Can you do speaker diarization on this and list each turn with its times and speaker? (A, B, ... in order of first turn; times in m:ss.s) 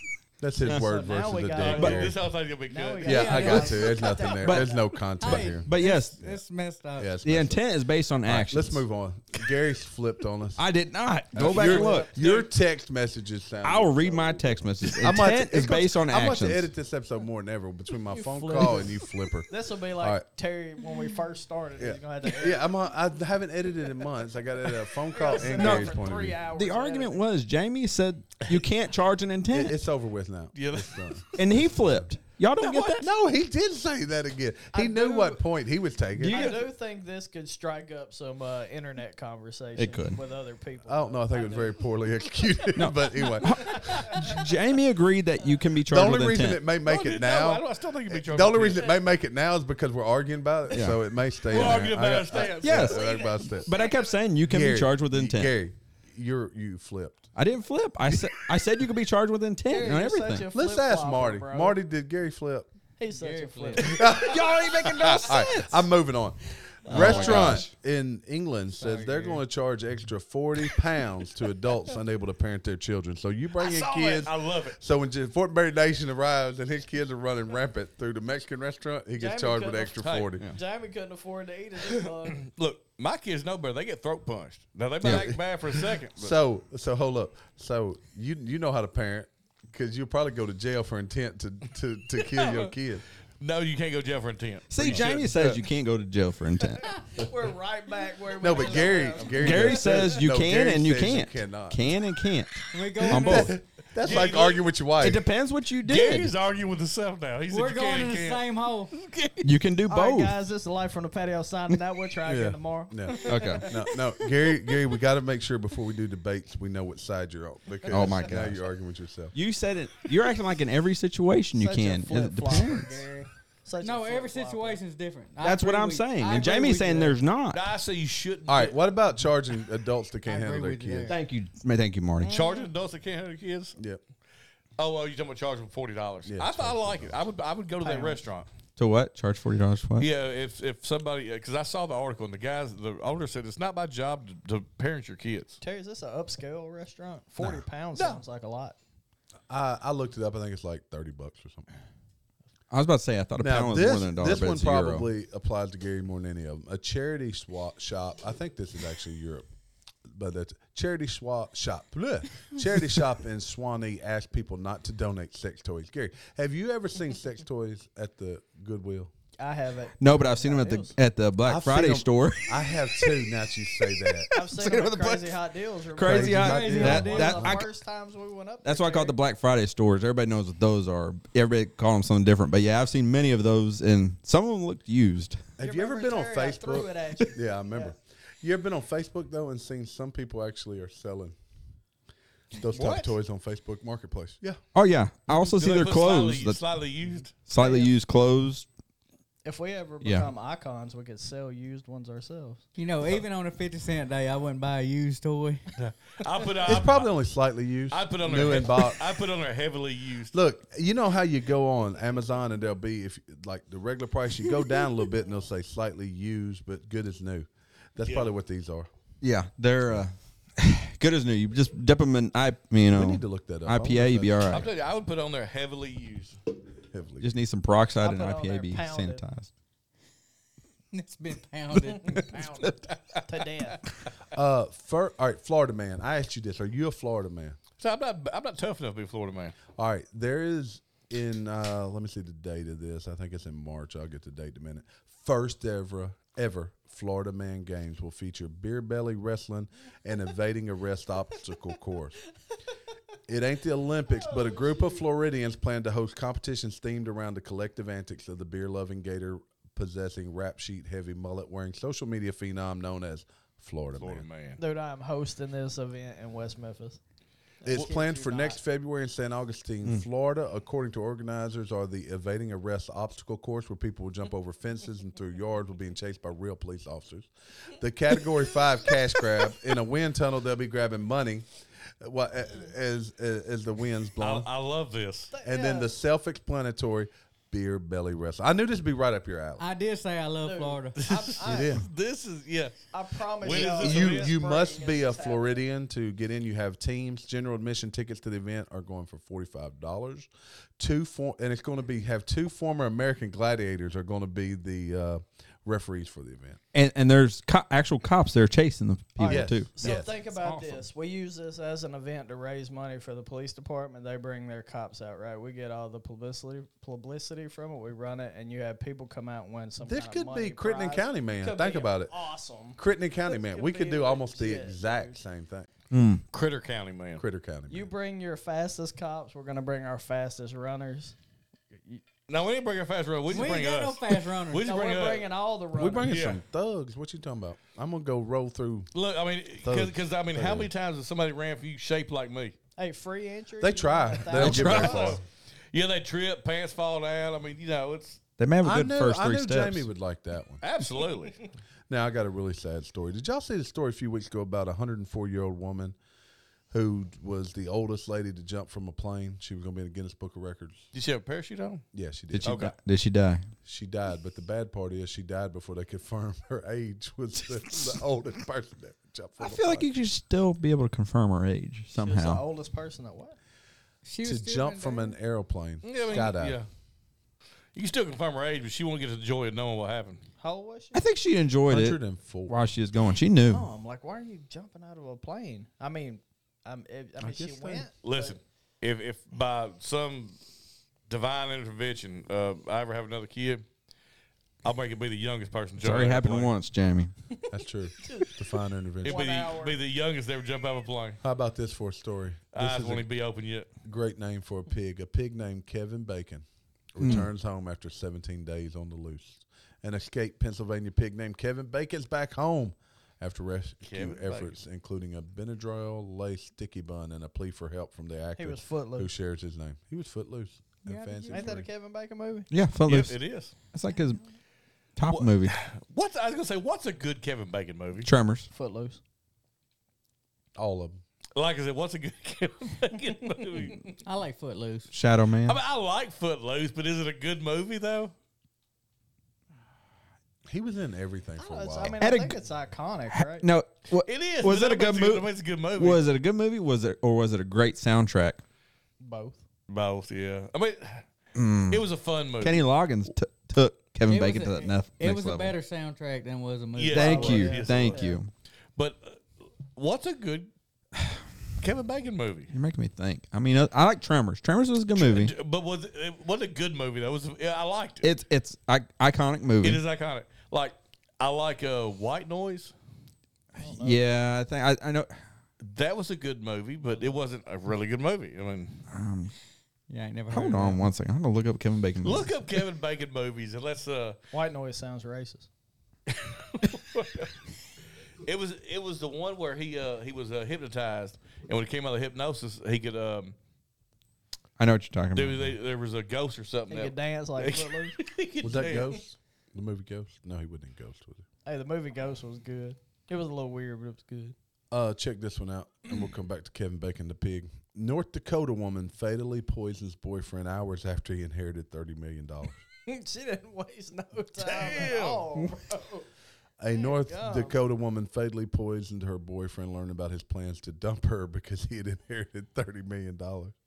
0:00.4-0:02.2 A
0:00.6-0:02.2 B
0:01.6-0:03.6 C
0:01.8-0:02.1 D
0:02.7-0:04.9 B
0:03.0-0:06.4 A
0:03.2-0:03.9 E
0:04.4-0:04.7 D
0:05.2-0:07.2 E
0:05.6-0:06.2 D
0:07.0-0:07.6 A
0:07.2-0:08.8 D
0:08.3-0:10.6 A
0:10.6-0:12.1 D
0:11.3-0:20.2 A
0:11.5-0:12.2 B
0:12.2-0:12.5 C
0:13.6-0:16.7 D
0:18.1-0:22.7 B
0:21.8-0:26.4 A
0:25.1-0:27.2 B
0:25.5-0:29.8 D
0:29.5-0:32.1 A
0:30.5-0:31.4 C
0:31.4-0:33.1 D
0:32.6-0:33.0 C
0:33.0-0:36.5 A
0:34.7-0:35.4 B
0:36.2-0:36.6 D
0:36.3-0:41.8 B
0:39.8-0:40.2 D
0:40.9-0:44.3 A
0:42.8-0:46.6 D
0:43.7-0:44.2 B
0:45.9-0:53.8 A
0:46.8-0:49.0 C
0:50.7-0:51.0 D
0:51.5-0:53.2 C
0:51.6-0:51.9 D
0:52.6-0:55.5 D
0:52.8-0:54.1 B
0:54.4-0:57.3 A
0:57.4-1:00.5 D
0:59.7-1:01.8 B
1:00.5-1:02.7 A
1:03.0-1:04.2 B
1:03.2-1:04.0 E
1:03.8-1:20.5 A
1:04.0-1:05.9 D
1:06.9-1:07.7 D
1:07.0-1:07.4 B
1:07.0-1:07.6 E
1:08.8-1:09.4 E
1:13.6-1:14.8 C
1:19.2-1:22.4 B
1:20.0-1:20.4 C
1:22.3-1:26.4 C
1:25.0-1:25.3 D
1:25.0-1:25.4 A
1:26.2-1:33.0 A
1:32.2-1:32.7 C
1:33.4-1:35.6 C
1:34.7-1:36.9 D
1:36.9-1:40.1 B
1:38.4-1:41.9 A
1:39.4-1:43.6 D
1:42.7-1:43.6 E
1:43.0-1:45.2 A
1:44.0-1:44.7 C
1:45.0-1:46.3 D
1:45.8-1:49.4 C
1:47.5-1:48.9 E
1:49.4-1:50.4 D
1:49.9-1:53.9 B
1:52.3-1:59.3 A
1:53.3-1:53.7 D
1:57.8-1:58.4 B
1:57.9-1:58.6 D
1:59.3-2:03.0 D
2:01.6-2:04.8 B
2:03.8-2:07.2 E
2:05.4-2:07.6 D
2:07.5-2:08.8 C
2:08.5-2:11.2 A
2:10.3-2:11.2 E
2:11.1-2:12.3 D
2:12.2-2:12.7 B
2:12.3-2:13.8 C
2:14.8-2:18.5 C
2:16.3-2:17.2 A
2:17.8-2:18.2 B
2:18.8-2:20.1 D
2:20.0-2:25.6 C
2:25.6-2:28.8 B
2:29.5-2:31.7 A
2:32.7-2:35.1 D
2:33.4-2:39.5 A
2:40.1-2:49.1 A
2:49.4-2:51.0 B
2:50.0-2:52.9 D
2:51.4-2:54.3 A
2:54.3-2:59.1 B
2:54.4-2:55.4 D
2:55.9-2:57.7 D
2:56.0-2:57.6 A
2:56.4-2:57.4 E
2:58.6-3:05.4 D
3:05.6-3:11.4 A
3:05.6-3:07.9 B
3:12.5-3:14.6 A
3:12.7-3:13.1 C
3:14.7-3:16.6 D
3:15.3-3:17.4 C
3:17.5-3:18.7 D
3:17.6-3:17.9 B
3:19.4-3:22.6 B
3:20.0-3:20.3 D
3:22.8-3:25.6 E
3:25.8-3:27.1 C
3:26.6-3:29.1 A
3:27.9-3:30.4 C
3:30.3-3:38.9 A
3:38.0-3:38.3 C
3:39.2-3:44.7 D
3:42.9-3:44.7 A
3:44.5-3:46.4 C
3:46.9-3:47.3 A
3:47.2-3:49.5 D
3:48.0-3:49.2 B
3:50.9-3:52.4 E
3:52.0-3:53.8 B
3:52.6-3:53.2 C
3:54.3-3:57.6 A
3:57.8-3:59.6 C
3:59.8-4:12.2 A
4:13.3-4:24.3 A
4:14.3-4:14.9 B
4:24.0-4:24.6 C
4:24.6-4:27.0 B
4:27.6-4:28.6 B
4:27.6-4:41.5 A
4:42.0-4:44.5 A
4:44.2-4:45.3 C
4:45.3-4:45.9 B
4:45.4-4:49.6 A
4:49.6-4:51.0 E
4:50.4-4:51.8 B
4:51.0-4:52.9 C
4:51.4-4:51.9 A
4:52.9-4:55.6 B
4:53.4-4:54.3 C
4:53.4-5:06.6 A
5:06.7-5:10.8 D
5:09.2-5:10.2 A
5:09.2-5:25.2 B
5:19.8-5:22.1 A
5:22.8-5:25.7 A
5:25.9-5:26.2 D
5:26.3-5:27.2 C
5:27.2-5:27.9 A
5:27.7-5:31.2 B
5:31.8-5:32.0 B
5:32.3-5:35.3 C
5:33.3-5:34.7 E
5:34.6-5:36.2 B
5:35.7-5:38.9 A
5:36.0-5:36.4 C
5:38.9-5:42.6 C
5:39.6-5:40.7 A
5:42.8-5:45.2 B
5:43.6-5:45.2 A
5:44.3-5:45.1 D
5:44.4-5:45.2 C
5:45.7-5:48.2 C
5:48.4-5:49.9 D
5:48.6-5:50.6 A
5:50.6-5:51.5 C
5:51.9-5:56.0 A
5:56.7-6:00.9 A
6:00.9-6:01.9 C
6:01.9-6:02.6 A
6:02.3-6:03.5 D
6:02.4-6:02.7 C
6:03.6-6:09.9 A
6:09.4-6:12.4 D
6:12.0-6:13.4 B
6:14.0-6:15.2 E
6:14.2-6:16.6 A
6:15.8-6:16.7 C
6:17.8-6:20.2 C
6:20.4-6:21.0 B
6:20.9-6:23.6 D
6:21.7-6:22.7 A
6:23.5-6:28.4 B
6:27.2-6:27.9 A
6:28.0-6:30.4 C
6:31.1-6:33.6 C
6:34.6-6:36.5 C
6:35.8-6:37.1 D
6:37.5-6:39.2 A
6:38.0-6:38.4 B
6:39.0-6:39.8 B
6:39.0-6:41.2 C
6:41.2-6:43.0 A
6:42.5-6:43.7 C
6:43.8-7:01.7 A
6:47.0-6:47.3 D
6:53.9-6:54.6 C
6:58.4-6:59.1 B
7:00.9-7:01.6 E
7:00.9-7:02.5 B
7:02.5-7:04.2 D
7:02.9-7:03.5 C
7:05.0-7:05.6 D
7:05.0-7:08.1 C
7:08.0-7:08.5 D
7:08.5-7:09.0 B
7:10.6-7:11.0 A
7:11.4-7:14.0 C
7:14.0-7:14.9 E
7:14.9-7:15.6 D
7:15.4-7:18.1 C
7:20.5-7:22.1 A
7:21.4-7:23.5 B
7:22.0-7:22.4 D
7:23.1-7:28.4 D
7:24.0-7:26.0 C
7:29.0-7:29.4 B
7:29.7-7:31.0 C
7:31.4-7:31.9 D
7:31.7-7:32.6 C
7:32.4-7:35.6 D
7:34.1-7:38.0 E
7:36.8-7:38.1 C
7:36.9-7:38.0 B
7:36.9-7:38.3 D
7:38.8-7:39.2 C
7:39.8-7:40.5 C
7:41.6-7:42.5 C
7:42.5-7:45.3 D
7:45.0-7:48.1 C
7:48.0-7:49.8 D
7:49.6-7:52.7 C
7:53.6-7:54.0 B
7:53.6-7:55.1 D
7:55.6-7:58.8 C
7:58.9-7:59.3 D
7:59.9-8:00.8 E
8:00.3-8:02.4 D
8:02.0-8:04.2 C
8:04.3-8:05.5 B
8:06.1-8:07.3 C
8:08.2-8:13.4 C
8:14.6-8:15.6 D
8:15.1-8:19.0 C
8:16.7-8:18.0 B
8:18.4-8:21.2 A
8:21.4-8:24.4 B
8:24.7-8:32.6 A
8:32.9-8:36.1 B
8:34.4-8:35.3 C
8:36.6-8:43.5 A
8:36.7-8:37.6 B